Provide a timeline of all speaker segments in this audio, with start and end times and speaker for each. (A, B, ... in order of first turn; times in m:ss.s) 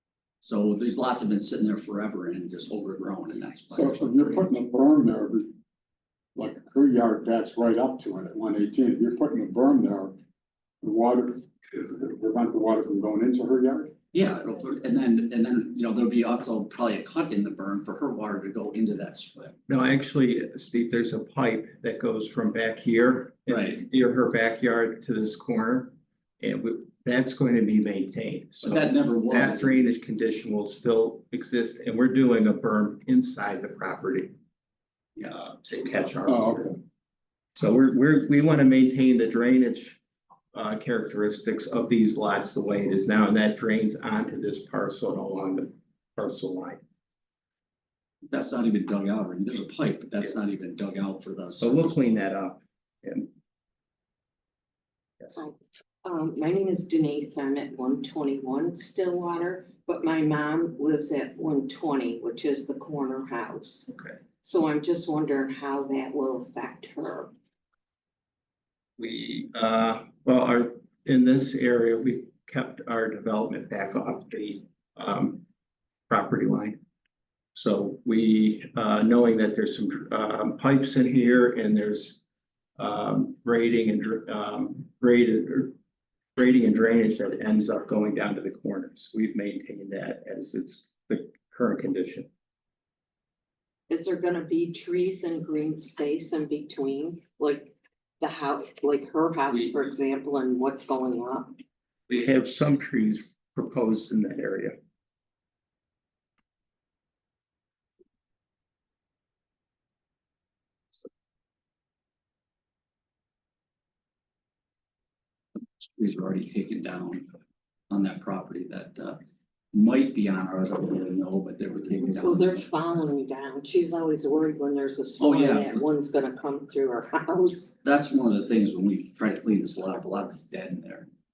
0:00.4-0:04.4 A
0:03.7-0:05.5 B
0:06.4-0:10.1 B
0:10.8-0:13.9 B
0:14.1-0:19.6 A
0:19.7-0:34.3 C
0:23.5-0:23.8 A
0:28.6-0:29.8 A
0:35.2-0:35.4 A
0:35.3-0:36.8 C
0:36.3-0:36.7 B
0:37.6-0:40.0 C
0:40.5-0:46.8 C
0:48.3-0:52.2 A
0:51.6-0:53.3 C
0:55.4-1:07.3 D
1:09.0-1:15.4 C
1:16.1-1:16.8 C
1:17.5-1:22.2 C
1:22.8-1:25.7 C
1:26.4-1:32.3 C
1:33.9-1:41.5 D
1:42.1-1:44.8 C
1:55.8-1:57.3 A
1:57.9-1:59.2 A
1:59.7-2:02.7 A
2:02.0-2:07.7 D
2:05.2-2:05.8 A
2:07.8-2:11.1 A